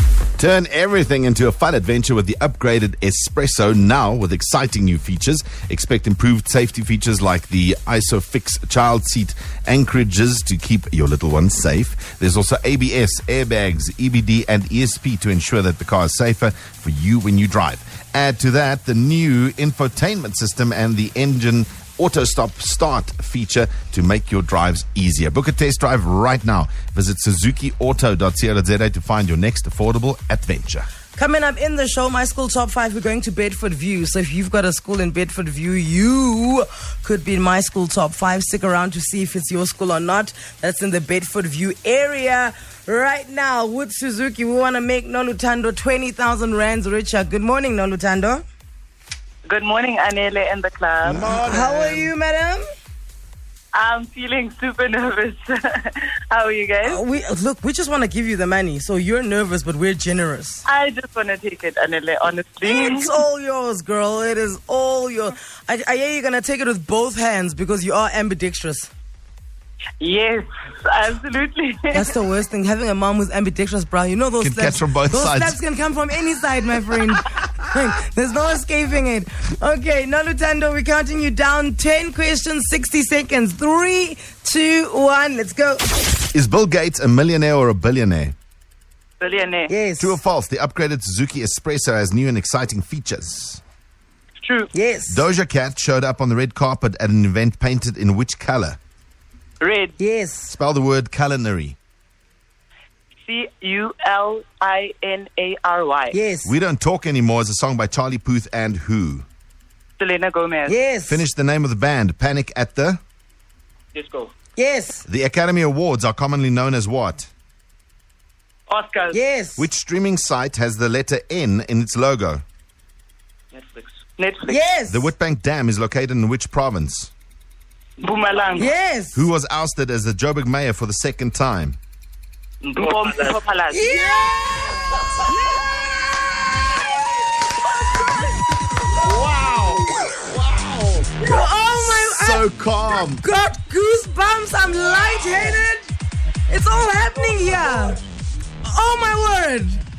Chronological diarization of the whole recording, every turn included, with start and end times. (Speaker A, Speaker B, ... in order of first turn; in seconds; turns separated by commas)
Speaker A: 0.4-30.9, Speaker B: 31.1-48.4, Speaker C: 49.5-51.3, Speaker A: 51.0-52.1, Speaker B: 51.3-52.6, Speaker C: 53.7-57.0, Speaker B: 56.8-60.6, Speaker C: 60.6-63.1, Speaker B: 62.6-68.9, Speaker C: 70.0-72.1, Speaker B: 71.9-85.8, Speaker A: 74.4-75.6, Speaker A: 86.3-88.3, Speaker C: 89.2-89.7, Speaker B: 89.7-90.2, Speaker A: 90.0-93.6, Speaker C: 94.4-94.7, Speaker B: 94.7-95.2, Speaker A: 95.1-98.8, Speaker C: 99.6-100.0, Speaker B: 100.0-100.5, Speaker A: 100.5-101.8, Speaker C: 103.2-106.2, Speaker B: 106.1-106.5, Speaker A: 106.4-109.2, Speaker C: 110.0-110.8, Speaker B: 110.7-111.2, Speaker A: 111.1-113.0, Speaker C: 113.9-114.3, Speaker B: 114.5-115.0, Speaker A: 115.0-117.3, Speaker C: 118.7-119.2, Speaker B: 119.1-119.7, Speaker A: 119.6-122.4, Speaker C: 123.5-124.6, Speaker B: 124.5-125.1, Speaker A: 124.9-127.1, Speaker C: 128.0-128.7, Speaker B: 128.5-129.2, Speaker A: 129.1-131.8, Speaker C: 132.6-133.8, Speaker B: 133.7-134.8, Speaker C: 135.3-135.6, Speaker C: 137.9-138.3, Speaker A: 139.1-139.7, Speaker B: 141.2-142.4, Speaker A: 142.0-143.2, Speaker B: 143.0-145.9, Speaker B: 146.5-148.0, Speaker B: 148.6-149.8